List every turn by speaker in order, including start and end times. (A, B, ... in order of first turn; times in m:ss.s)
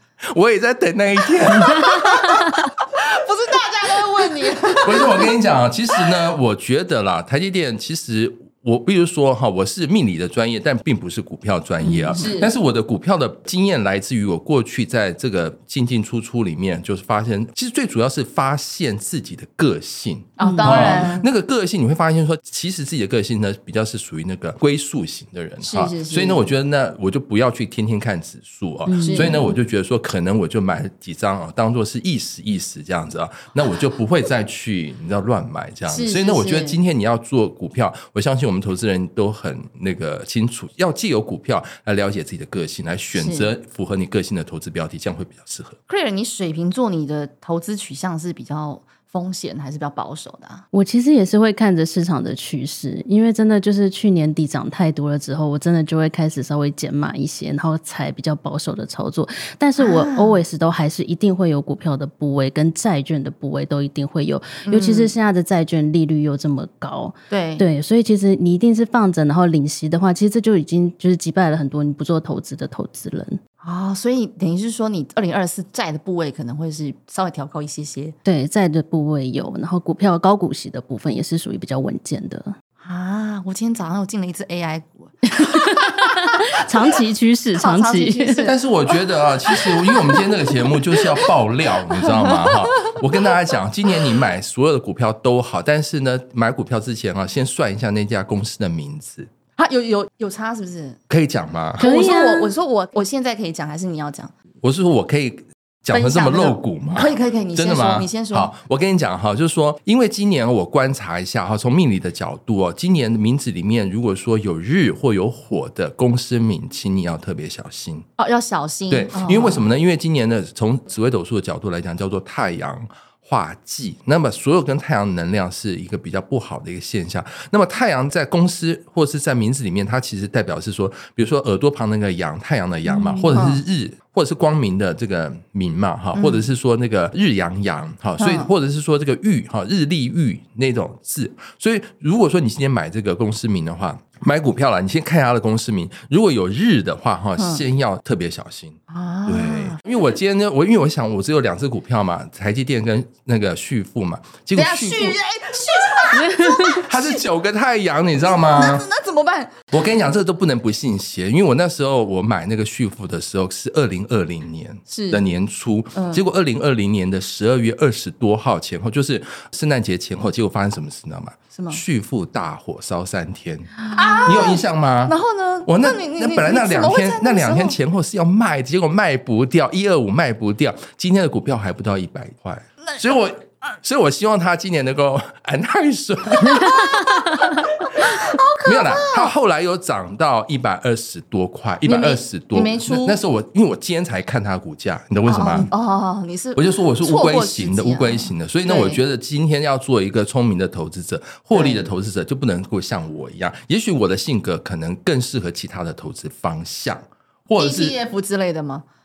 0:00.3-0:02.5 A
0:01.6-0:02.6 B
0:02.0-0:05.3 C
0:04.8-0:45.8 A
0:11.8-0:12.3 B
0:12.2-0:12.5 C
0:20.4-0:21.2 C
0:20.4-0:21.1 B
0:25.6-0:26.5 C
0:28.8-0:29.5 B
0:29.0-0:29.5 C
0:35.9-0:36.8 C
0:43.1-0:43.5 C
0:45.9-0:50.6 C
0:50.7-1:13.4 B
0:59.8-1:00.4 C
1:04.6-1:05.1 C
1:07.3-1:07.6 C
1:13.6-1:18.1 C
1:18.2-1:22.5 B
1:22.8-1:27.0 C
1:25.3-1:28.5 B
1:27.6-1:28.9 C
1:28.4-1:39.3 A
1:29.4-1:30.3 C
1:31.9-1:32.9 C
1:39.6-1:41.0 C
1:41.1-1:41.9 A
1:41.8-1:42.5 B
1:41.8-1:44.3 C
1:44.6-1:58.0 A
1:45.9-1:48.5 C
1:58.2-1:59.6 C
1:58.9-2:35.2 A
2:12.9-2:13.3 B
2:13.3-2:13.6 C
2:16.1-2:16.4 C
2:18.2-2:18.5 C
2:27.4-2:27.6 C
2:28.9-2:29.8 C
2:34.5-2:37.2 C
2:36.1-2:36.8 B
2:36.8-2:38.8 A
2:38.3-2:39.5 C
2:39.7-3:07.1 A
2:44.9-2:45.2 C
2:45.9-2:46.2 C
2:51.5-2:51.8 C
2:53.9-2:57.8 C
3:06.5-3:09.3 C
3:06.7-3:07.4 B
3:08.0-3:15.7 A
3:11.8-3:13.2 C
3:15.2-3:19.0 C
3:16.6-3:28.0 A
3:21.5-3:21.9 C
3:27.6-3:28.8 C